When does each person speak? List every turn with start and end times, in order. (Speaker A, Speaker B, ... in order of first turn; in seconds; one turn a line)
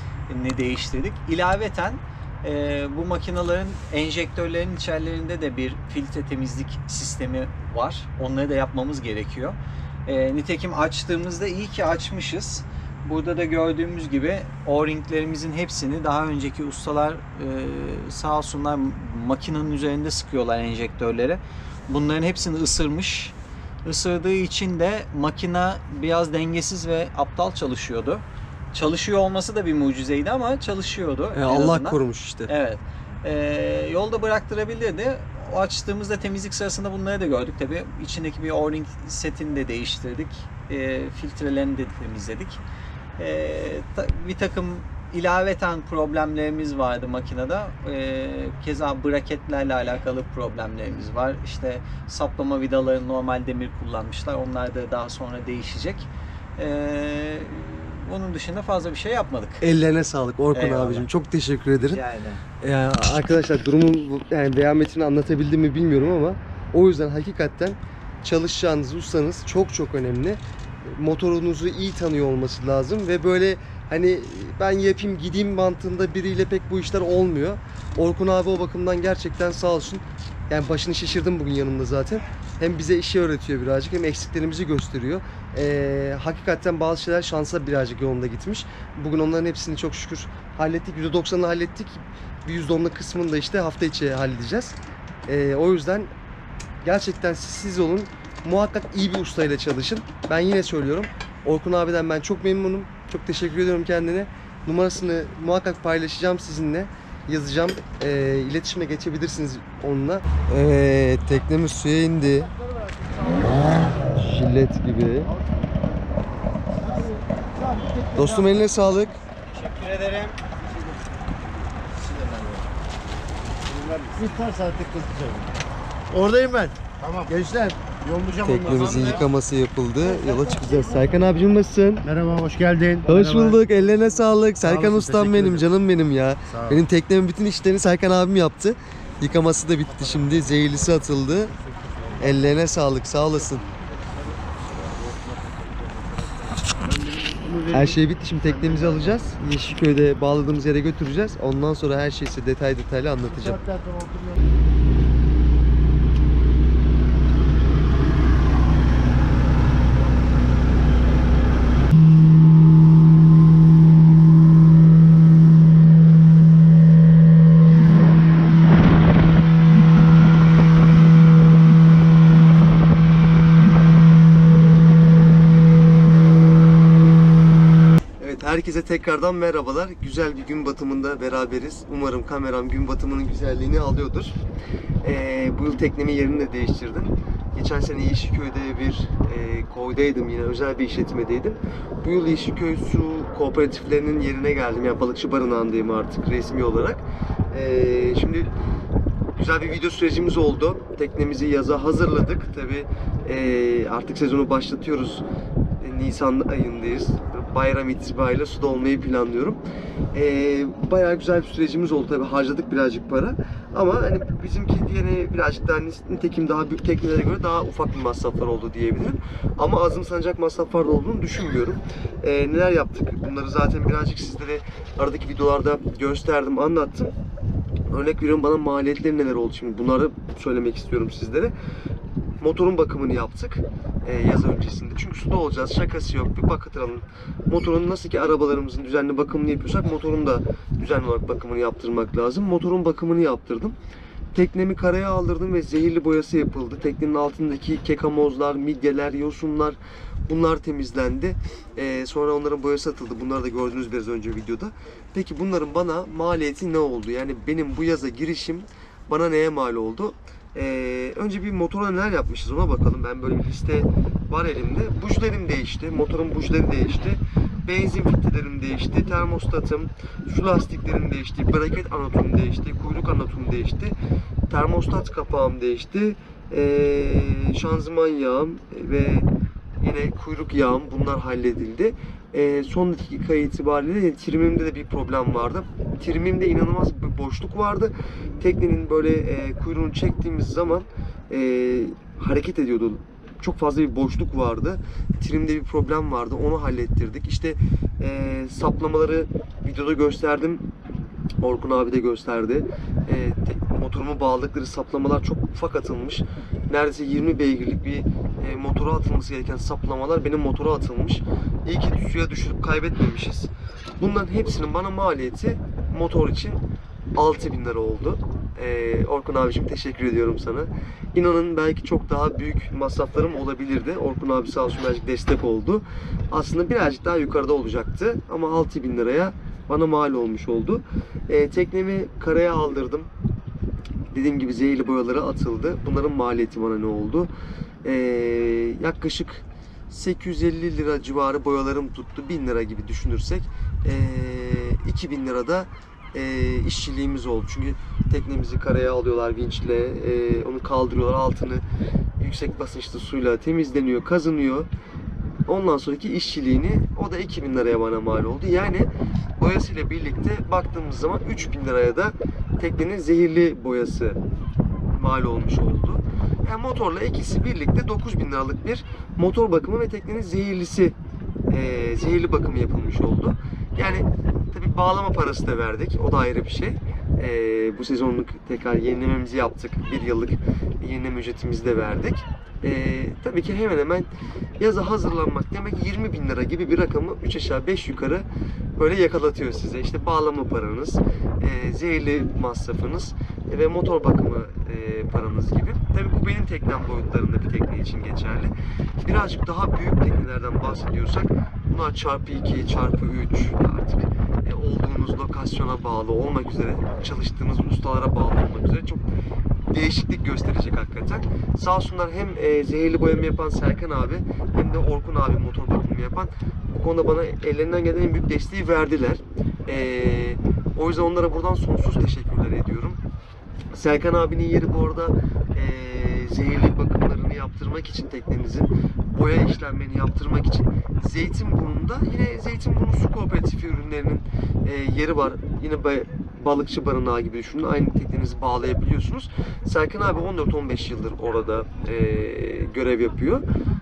Speaker A: 0.3-23.3
Speaker A: 23.9-42.6
Speaker B: 31.3-32.5
Speaker A: 43.2-59.6
Speaker B: 59.6-62.0
Speaker A: 60.5-61.1
Speaker A: 61.8-62.4
Speaker B: 62.6-94.8
Speaker B: 95.3-96.1
Speaker B: 96.8-112.5
Speaker B: 114.1-115.3
Speaker C: 117.8-118.2
Speaker B: 118.1-119.2
Speaker A: 119.5-120.4
Speaker C: 122.2-122.6
Speaker C: 123.7-125.5
Speaker C: 126.1-129.2
Speaker B: 128.4-132.1
Speaker A: 128.7-129.2
Speaker C: 130.4-131.1
Speaker C: 132.0-133.7
Speaker B: 133.1-141.5
Speaker C: 134.6-135.7
Speaker C: 136.5-136.8
Speaker B: 142.2-143.7
Speaker C: 146.8-148.0
Speaker B: 147.7-153.6
Speaker C: 148.6-149.2
Speaker C: 153.6-154.3
Speaker B: 178.2-184.4
Speaker B: 185.0-198.5
Speaker B: 199.4-205.2
Speaker B: 205.8-209.6
Speaker B: 210.1-227.1
Speaker B: 227.9-231.5
Speaker B: 232.4-243.8
Speaker B: 244.3-273.9
Speaker B: 274.5-279.3
Speaker B: 279.8-300.6
Speaker B: 301.4-316.6
Speaker B: 317.2-333.1
Speaker B: 334.1-337.3
Speaker B: 337.8-351.6
Speaker B: 352.2-354.7
Speaker B: 355.5-364.2
Speaker B: 364.9-371.0
Speaker B: 371.5-388.3
Speaker B: 388.8-409.1
Speaker B: 409.7-423.0
Speaker B: 423.7-443.4